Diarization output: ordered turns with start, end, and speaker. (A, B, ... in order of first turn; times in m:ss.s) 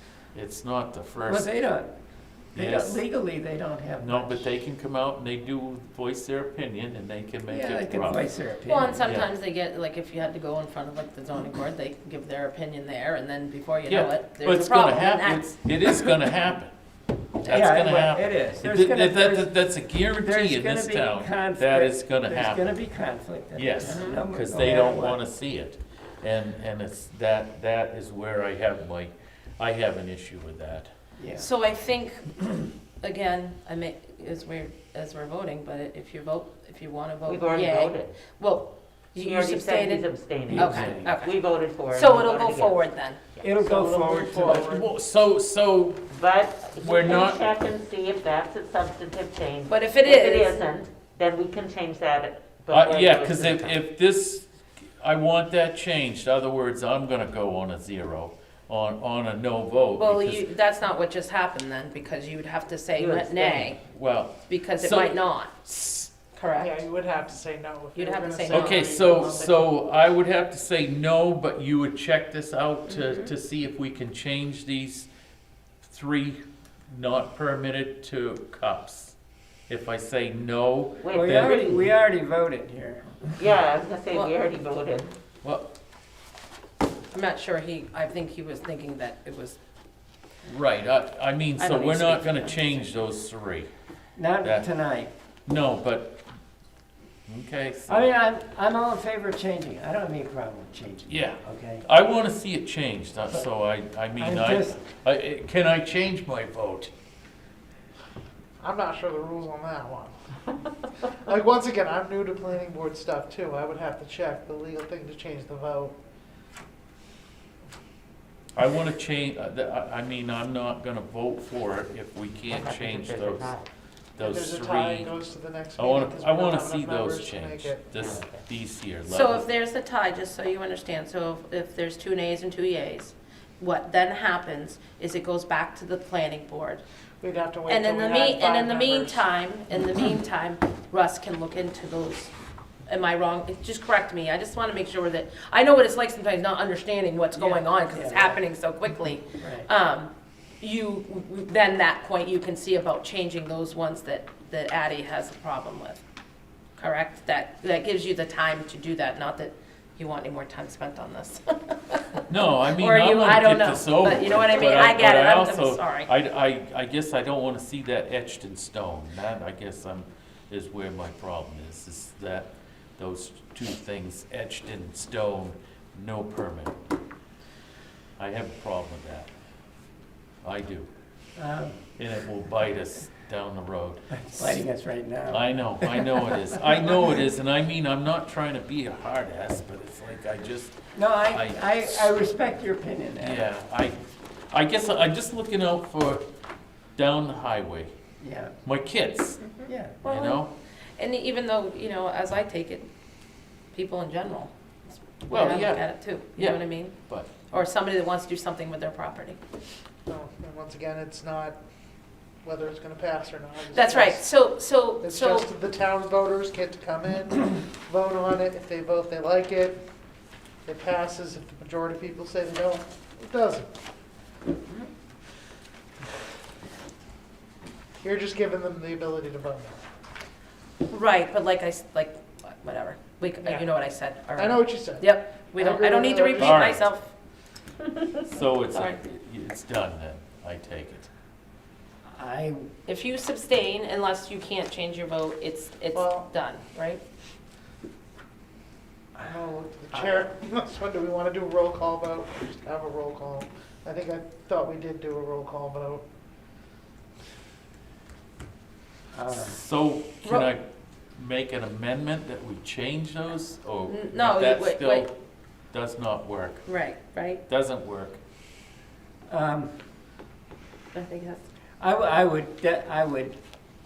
0:00.3-0:01.6 A
0:01.3-0:01.9 B
0:02.6-0:03.0 A
0:02.6-0:04.5 B
0:04.0-0:08.2 A
0:07.5-0:09.0 B
0:08.7-0:15.5 C
0:13.9-0:16.7 A
0:17.4-0:22.7 A
0:17.5-0:19.6 B
0:20.2-0:25.2 B
0:23.5-0:30.9 A
0:23.9-0:24.2 C
0:31.2-0:31.5 B
0:31.4-0:43.2 C
0:37.3-0:38.2 D
0:39.2-0:42.8 D
0:40.5-0:41.0 A
0:40.6-0:41.0 B
0:43.4-0:44.7 B
0:43.6-0:44.9 E
0:44.4-0:46.0 A
0:46.1-0:53.8 D
0:46.8-0:47.4 A
0:49.7-0:50.6 C
0:52.7-1:00.4 A
1:00.0-1:03.8 C
1:03.0-1:03.7 D
1:03.9-1:06.1 A
1:04.5-1:06.8 C
1:06.6-1:09.7 E
1:08.0-1:09.0 C
1:08.5-1:15.1 A
1:12.9-1:13.3 C
1:15.8-1:19.2 A
1:19.7-1:21.8 A
1:21.0-1:21.8 D
1:21.1-1:23.3 B
1:23.4-1:25.1 D
1:25.4-1:25.7 A
1:27.1-1:29.6 C
1:30.5-1:33.7 A
1:31.6-1:33.0 C
1:34.2-1:35.1 B
1:34.4-1:34.7 A
1:35.5-1:36.2 A
1:37.3-1:38.1 A
1:37.9-1:41.8 B
1:41.1-1:46.9 A
1:44.2-1:44.8 B
1:48.6-1:50.2 E
1:51.0-1:56.0 E
1:58.6-2:03.6 A
2:02.5-2:03.7 D
2:04.2-2:05.1 A
2:04.2-2:07.9 E
2:05.8-2:09.4 A
2:07.9-2:08.4 D
2:09.1-2:16.8 C
2:17.2-2:19.3 E
2:17.7-2:22.3 C
2:22.9-2:36.0 C
2:27.9-2:28.4 B
2:29.4-2:29.7 B
2:36.8-2:46.1 C
2:42.3-2:56.8 A
2:58.2-2:59.3 A
3:00.4-3:00.9 A
3:01.4-3:01.8 B
3:02.0-3:04.6 A
3:04.1-3:06.4 B
3:05.3-3:10.8 A
3:10.9-3:13.5 B
3:11.3-3:12.1 A
3:13.2-3:14.0 A
3:14.5-3:16.3 A
3:17.0-3:17.9 A
3:18.2-3:18.6 B
3:18.6-3:19.4 A
3:19.6-3:20.4 C
3:19.7-3:20.0 B
3:20.0-3:20.5 A
3:21.0-3:22.9 C
3:23.7-3:29.4 C
3:25.3-3:27.4 A
3:30.1-3:31.6 E
3:32.4-3:34.3 E
3:33.7-3:35.5 C
3:35.0-3:39.8 E
3:40.7-3:43.7 E
3:48.0-3:49.8 E
3:50.9-3:57.1 C
3:53.4-3:53.7 E
3:54.4-3:56.7 E
3:56.4-3:56.9 A
3:58.2-4:01.1 A
3:58.7-3:59.0 C
4:02.1-4:02.7 B
4:02.9-4:07.0 C
4:05.9-4:06.3 E
4:09.2-4:16.0 E
4:19.1-4:19.6 B
4:19.4-4:25.1 A
4:23.9-4:25.1 C
4:25.7-4:26.7 A
4:26.7-4:27.4 C
4:27.5-4:28.2 A
4:29.3-4:29.8 B
4:30.9-4:31.4 C
4:31.8-4:33.4 B